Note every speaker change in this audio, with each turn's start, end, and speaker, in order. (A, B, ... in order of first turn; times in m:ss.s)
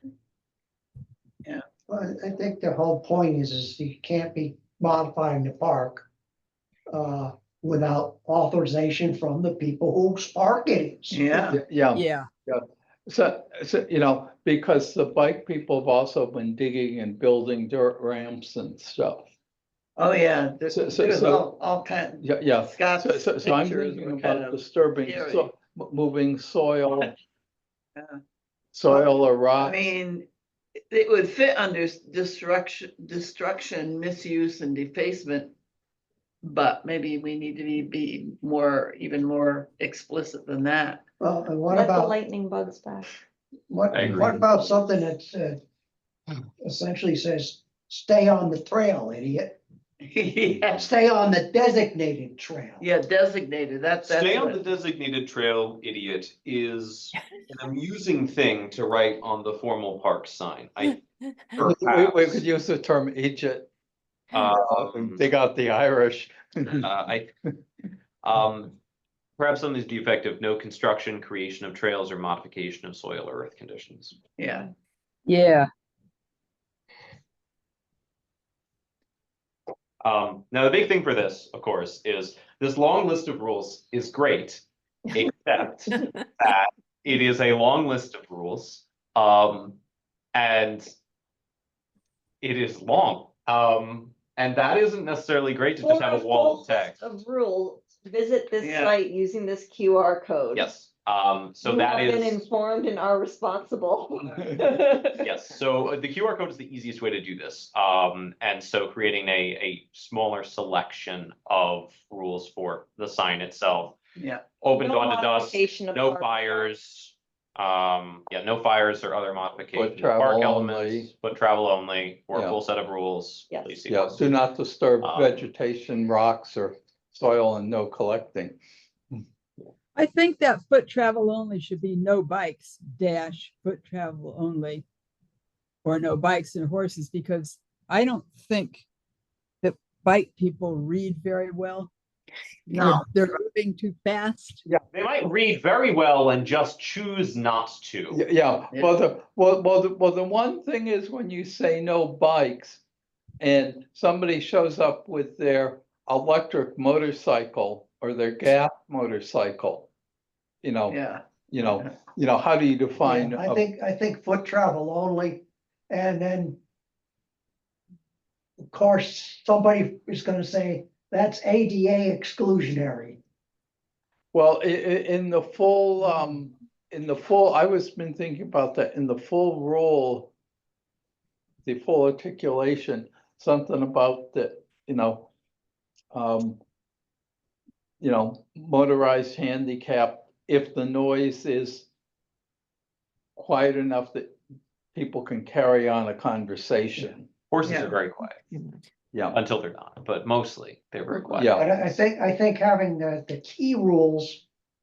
0:01.9-0:06.1 A
0:06.9-0:11.4 A
0:11.1-0:11.6 B
0:11.5-0:19.3 C
0:11.9-0:12.3 D
0:20.0-0:25.5 B
0:20.7-0:21.5 C
0:22.2-0:27.1 C
0:28.7-0:29.9 C
0:29.6-0:30.3 B
0:30.9-0:35.5 B
0:36.4-0:41.0 B
0:41.2-0:42.2 A
0:41.7-0:43.1 E
0:43.7-0:45.6 A
0:43.9-0:44.3 F
0:46.6-0:49.6 A
0:50.1-0:50.8 B
0:50.7-0:52.9 A
0:52.8-0:54.5 B
0:54.0-1:01.0 F
1:01.6-1:02.4 F
1:01.6-1:03.7 C
1:04.3-1:05.2 F
1:04.4-1:06.9 C
1:06.8-1:07.3 F
1:08.2-1:08.8 F
1:09.4-1:14.2 F
1:14.4-1:14.7 B
1:15.3-1:15.7 D
1:20.0-1:29.8 F
1:30.3-1:30.9 F
1:32.4-1:37.0 F
1:35.8-1:40.7 E
1:38.6-1:38.9 B
1:40.6-1:42.4 F
1:41.6-1:45.3 E
1:45.2-1:54.0 F
1:54.2-1:54.4 B
1:54.6-2:04.2 F
1:54.7-1:56.7 E
1:59.7-2:01.1 C
2:02.3-2:02.6 C
2:03.5-2:03.9 E
2:03.9-2:08.6 C
2:05.0-2:05.4 F
2:09.9-2:14.8 D
2:15.8-2:18.8 D
2:19.6-2:21.9 D
2:22.7-2:23.0 B
2:22.8-2:24.6 D
2:24.9-2:28.2 F
2:28.1-2:32.8 C
2:28.7-2:29.0 B
2:33.4-2:39.9 C
2:40.6-2:43.6 C
2:40.9-2:41.2 B
2:43.0-2:46.6 A
2:48.6-2:53.2 A
2:54.3-3:00.3 C
3:01.6-3:05.3 C
3:06.1-3:06.6 C
3:08.0-3:11.9 C
3:13.4-3:14.4 C
3:14.9-3:17.3 C
3:17.5-3:18.4 F
3:17.6-3:17.9 B
3:19.1-3:19.4 C
3:19.3-3:21.7 F
3:21.3-3:21.7 C
3:21.5-3:24.4 A